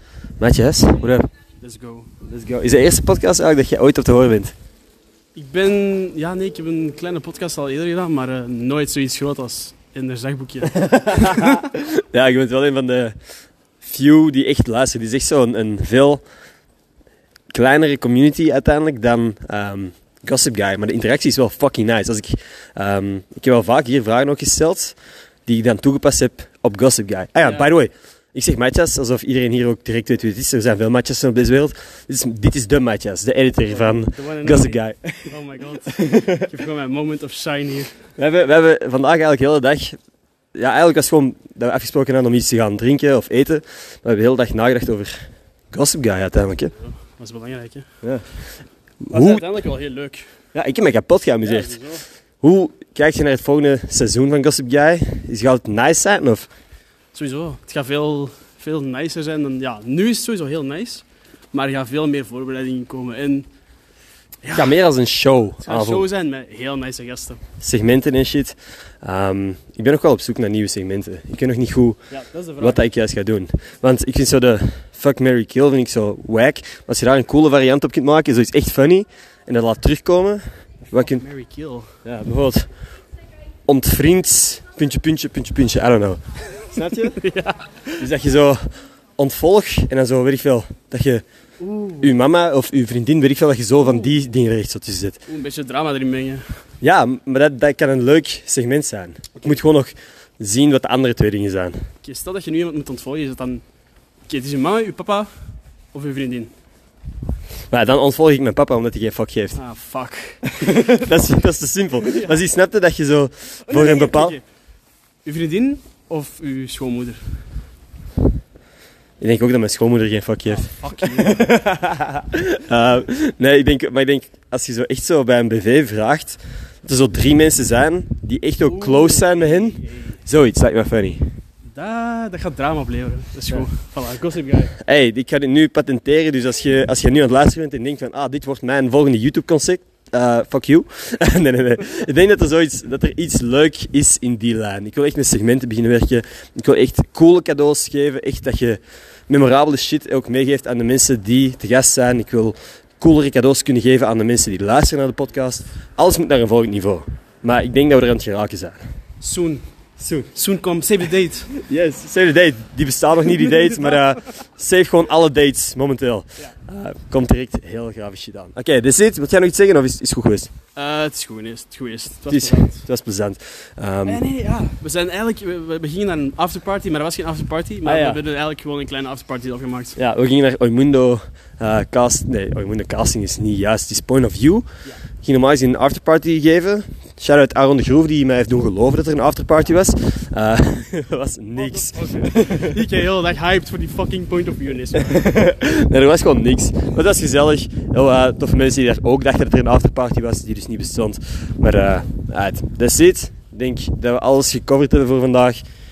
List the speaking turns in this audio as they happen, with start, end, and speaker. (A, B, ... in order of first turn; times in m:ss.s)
0:00.4-0:01.3 A
0:01.6-0:02.1 B
0:02.2-0:04.5 A
0:05.4-0:11.6 B
0:10.8-0:13.2 A
0:13.8-0:16.2 A
0:17.5-0:35.3 A
0:27.4-0:27.7 B
0:33.7-0:38.0 B
0:36.1-0:36.4 A
0:38.2-0:40.0 A
0:40.6-0:46.7 A
0:46.8-0:47.9 B
0:49.0-0:49.4 A
0:49.1-0:50.3 B
0:50.5-0:51.8 A
0:51.4-0:52.0 B
0:52.4-0:56.5 A
0:57.1-1:03.5 B
1:04.4-1:04.7 B
1:04.5-1:06.0 A
1:05.6-1:07.4 B
1:07.6-1:12.0 A
1:12.1-1:12.9 B
1:12.6-1:21.2 A
1:20.9-1:22.0 B
1:22.0-1:22.7 A
1:23.7-1:27.2 A
1:27.1-1:28.0 B
1:28.0-1:31.2 A
1:31.6-1:32.1 B
1:32.0-1:35.2 A
1:35.3-1:36.4 B
1:36.8-1:41.8 A
1:42.0-1:43.6 B
1:44.3-1:45.3 B
1:45.9-1:46.5 B
1:47.7-1:49.6 A
1:49.6-1:50.9 B
1:50.5-1:54.4 A
1:52.0-1:52.4 B
1:53.7-1:54.4 B
1:55.2-1:57.2 B
1:59.2-2:11.2 A
2:00.5-2:01.5 B
2:08.6-2:10.2 B
2:11.7-2:14.7 B
2:14.8-2:38.8 A
2:39.2-2:39.6 B
2:40.0-2:40.3 A
2:40.3-2:41.5 B
2:41.6-2:50.5 A
2:50.8-2:52.8 B
2:52.3-2:54.2 A
2:54.0-3:00.0 B
2:57.8-2:58.2 A
3:00.0-3:04.7 A
3:05.2-3:12.7 A
3:11.6-3:15.3 B
3:15.0-3:25.6 A